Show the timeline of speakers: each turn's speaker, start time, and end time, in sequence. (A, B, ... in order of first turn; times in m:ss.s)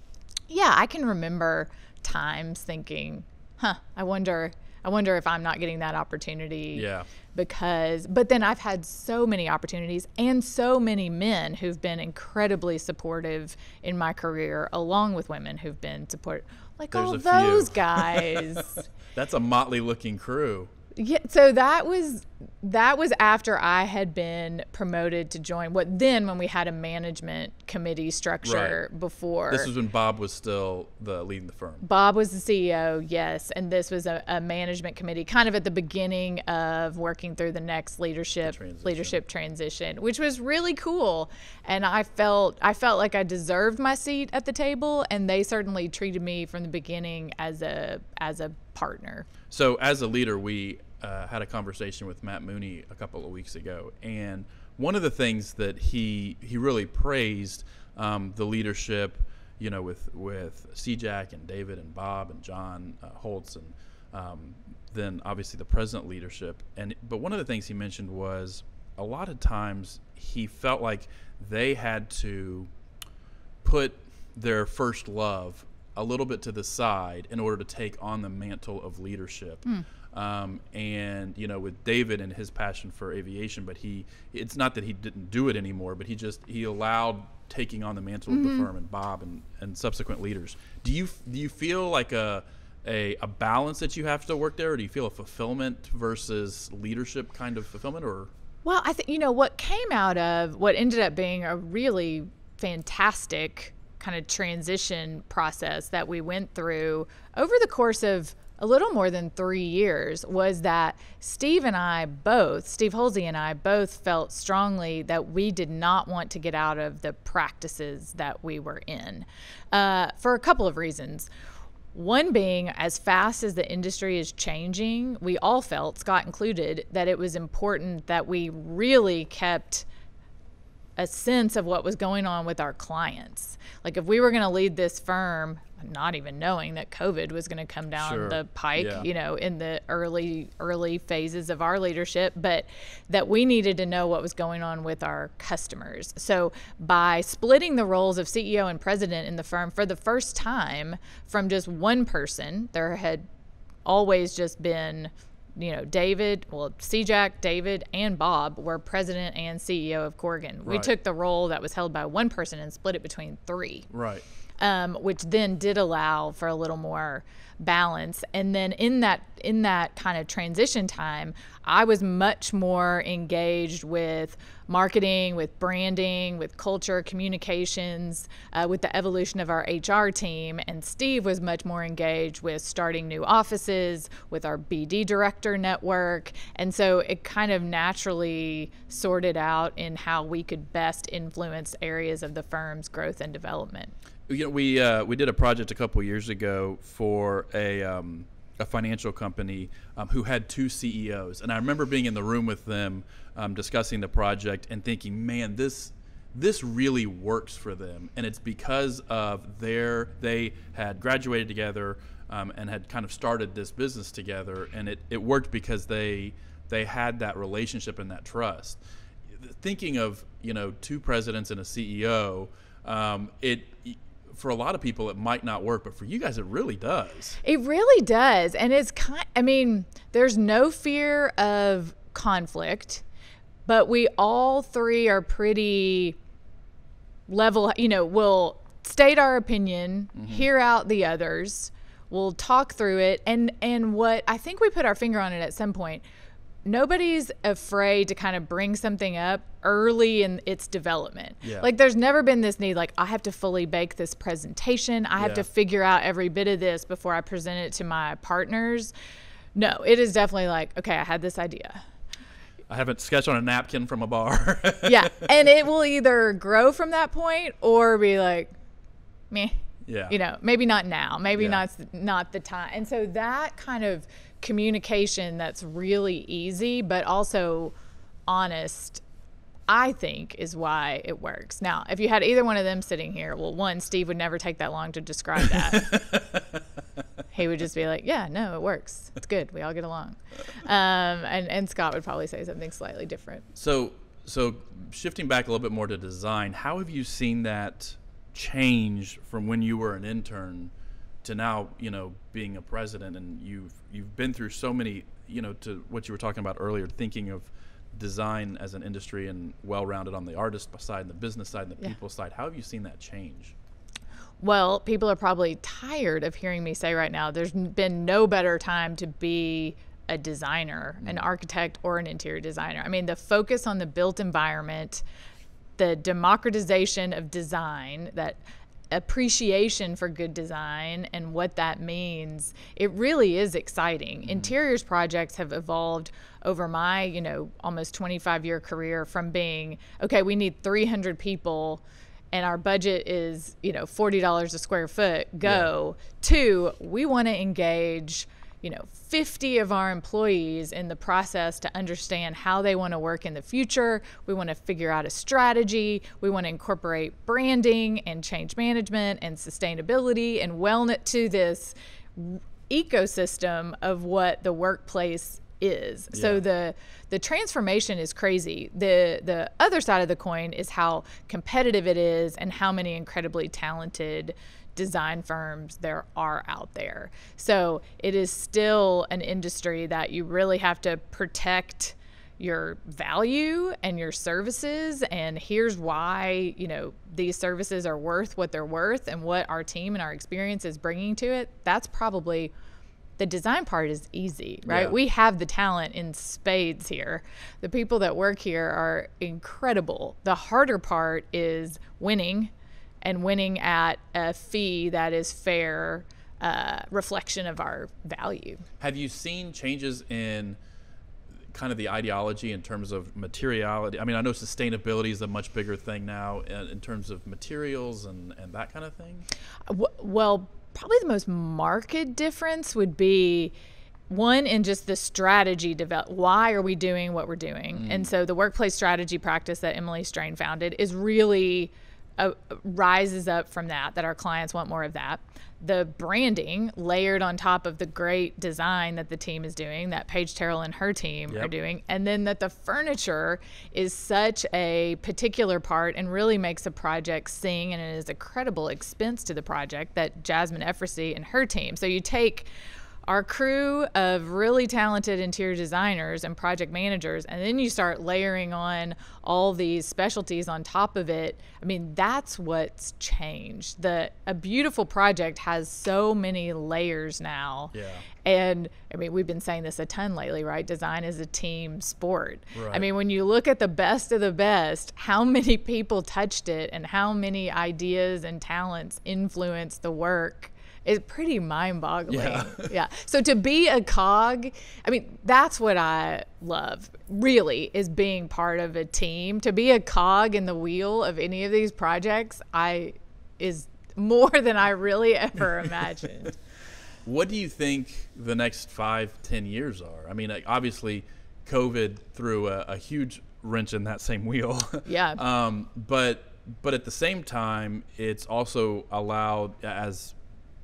0:00.5-0:18.8 A
0:06.7-0:07.1 B
0:16.9-0:20.7 B
0:21.0-0:29.7 A
0:28.4-0:28.8 B
0:29.5-0:31.8 B
0:31.8-0:49.3 A
0:38.4-0:39.2 B
0:49.5-1:12.7 B
1:13.6-1:38.3 B
1:28.3-1:28.7 A
1:38.6-2:01.3 A
2:01.9-2:09.9 A
2:11.0-2:33.2 A
2:18.0-2:19.1 B
2:33.8-2:43.9 A
2:40.6-2:40.9 B
2:43.9-2:44.2 B
2:44.6-3:13.9 A
3:14.3-3:47.4 B
3:47.4-3:53.0 A
3:53.7-3:56.2 A
3:57.3-4:06.0 A
4:00.2-4:00.5 B
4:06.6-4:18.9 A
4:11.4-4:11.7 B
4:15.2-4:15.5 B
4:19.6-4:21.8 A
4:22.7-4:25.2 B
4:24.8-4:28.6 A
4:29.3-4:37.7 A
4:29.9-4:30.2 B
4:31.4-4:31.6 B
4:38.3-4:39.0 A
4:39.7-4:46.0 A
4:45.7-4:46.6 B
4:47.3-4:53.5 A
4:53.6-5:00.7 B
5:01.2-5:13.6 B
5:14.4-5:25.0 A
5:25.8-5:28.4 A
5:28.9-6:32.5 A
5:34.2-5:34.5 B
5:45.4-5:45.7 B
6:06.1-6:06.4 B
6:33.2-6:42.5 A
6:34.7-6:35.0 B
6:43.0-6:48.6 A
6:48.8-6:50.6 B
6:51.5-6:59.3 B
6:59.7-7:03.5 A
7:04.1-7:32.5 A
7:07.8-7:08.1 B
7:33.1-8:16.4 A
7:47.7-7:48.0 B
7:52.5-7:52.8 B
8:02.1-8:02.7 B
8:17.0-8:30.2 B
8:24.9-8:25.2 A